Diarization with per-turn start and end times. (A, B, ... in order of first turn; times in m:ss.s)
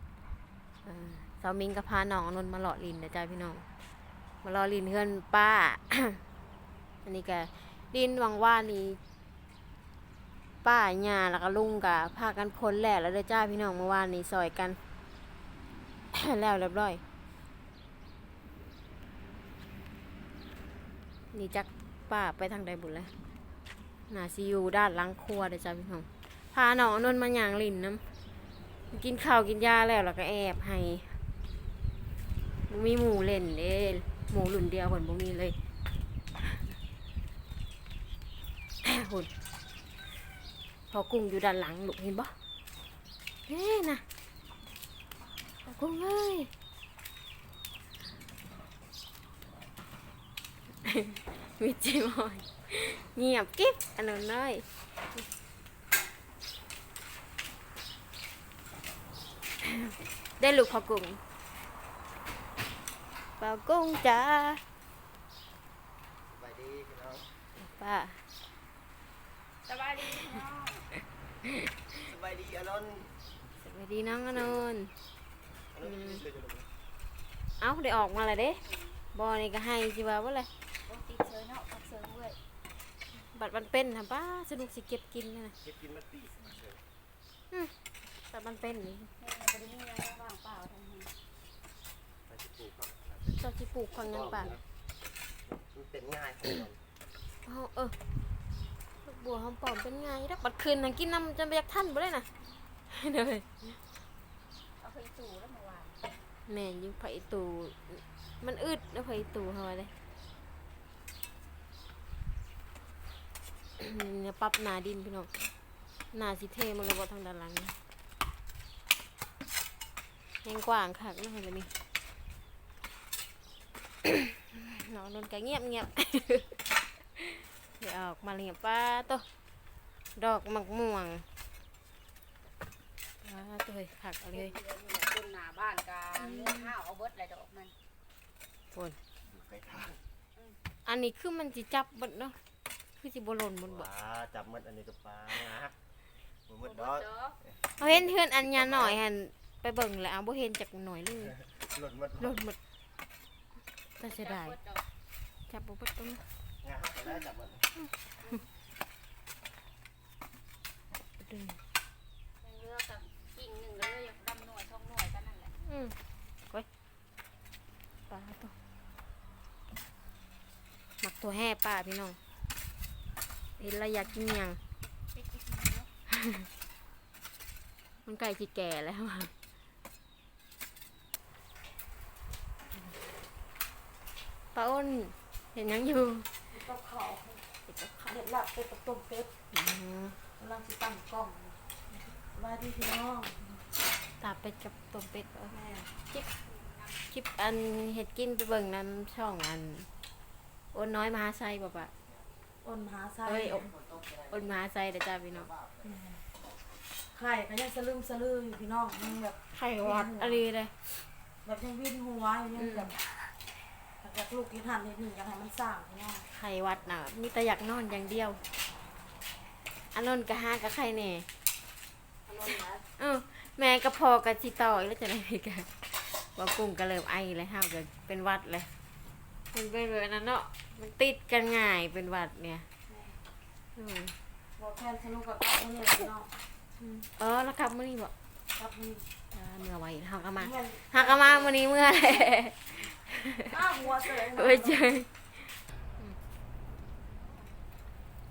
0:00.8-0:03.7 A
0:04.4-0:06.2 A
0:07.0-0:09.0 A
0:10.6-0:14.8 A
0:16.1-0:17.0 A
0:21.3-0:23.1 A
0:24.1-0:28.0 A
0:28.9-0:31.2 A
0:32.7-0:35.6 A
0:36.4-0:36.8 A
0:38.8-0:39.3 A
0:40.9-0:42.3 A
0:43.5-0:44.0 A
0:45.6-0:46.5 A
0:50.8-0:55.2 A
0:59.6-1:01.2 A
1:03.4-1:04.6 A
1:06.3-1:07.3 B
1:07.6-1:08.2 A
1:09.7-1:10.9 C
1:12.0-1:13.1 B
1:13.6-1:14.9 A
1:14.3-1:14.6 B
1:15.7-1:16.7 B
1:15.8-1:16.2 A
1:17.6-1:18.6 A
1:18.3-1:19.0 C
1:19.1-1:20.5 A
1:20.9-1:22.4 C
1:23.2-1:25.5 A
1:25.6-1:26.8 B
1:28.3-1:29.1 A
1:29.2-1:31.1 C
1:32.3-1:34.6 B
1:33.4-1:34.5 A
1:35.7-1:36.8 B
1:37.5-1:37.9 A
1:39.0-1:42.3 A
1:42.9-1:43.8 A
1:44.8-1:45.9 C
1:46.5-1:49.9 A
1:53.8-1:55.3 A
1:56.1-1:57.8 A
2:00.4-2:01.7 A
2:04.0-2:06.6 A
2:07.2-2:09.2 A
2:10.2-2:11.2 A
2:13.2-2:14.5 A
2:14.3-2:17.7 C
2:16.2-2:16.7 A
2:19.3-2:20.0 B
2:20.9-2:22.4 A
2:23.0-2:23.9 A
2:23.6-2:25.8 B
2:26.5-2:29.0 B
2:26.6-2:27.4 C
2:27.8-2:31.4 A
2:31.4-2:32.4 B
2:32.2-2:32.6 A
2:34.0-2:34.6 A
2:34.0-2:34.8 C
2:35.5-2:36.2 A
2:36.6-2:37.7 B
2:41.2-2:41.6 A
2:42.4-2:45.5 C
2:45.6-2:46.0 A
2:48.1-2:48.5 A
2:51.0-2:52.2 A
2:53.6-2:54.6 A
2:55.1-2:55.9 C
2:56.1-2:56.5 A
2:58.0-2:59.3 A
3:04.5-3:06.3 A
3:06.5-3:07.4 D
3:07.7-3:08.1 A
3:08.1-3:09.3 D
3:09.5-3:10.2 A
3:10.4-3:11.6 D
3:12.3-3:13.4 D
3:14.2-3:15.6 A
3:15.5-3:15.9 D
3:16.4-3:17.1 C
3:17.1-3:19.9 A
3:20.7-3:21.9 A
3:22.0-3:22.3 B
3:22.6-3:23.7 D
3:23.2-3:23.7 A
3:23.5-3:24.6 B
3:24.3-3:25.5 A
3:25.2-3:26.1 B
3:25.9-3:26.2 D
3:27.1-3:30.4 D
3:29.5-3:30.9 A
3:31.4-3:33.1 D
3:32.6-3:32.9 A
3:34.0-3:36.3 D
3:36.3-3:38.4 A
3:39.9-3:41.3 A
3:42.3-3:42.8 D
3:43.0-3:45.7 A
3:46.4-3:48.7 A
3:49.5-3:52.7 A
3:52.9-3:53.2 D
3:53.8-3:54.1 A
3:54.6-3:56.3 D
3:56.8-3:58.1 A
3:58.6-3:59.1 D
3:59.3-4:06.2 A
4:00.4-4:01.6 D
4:03.5-4:04.9 D
4:07.1-4:07.6 C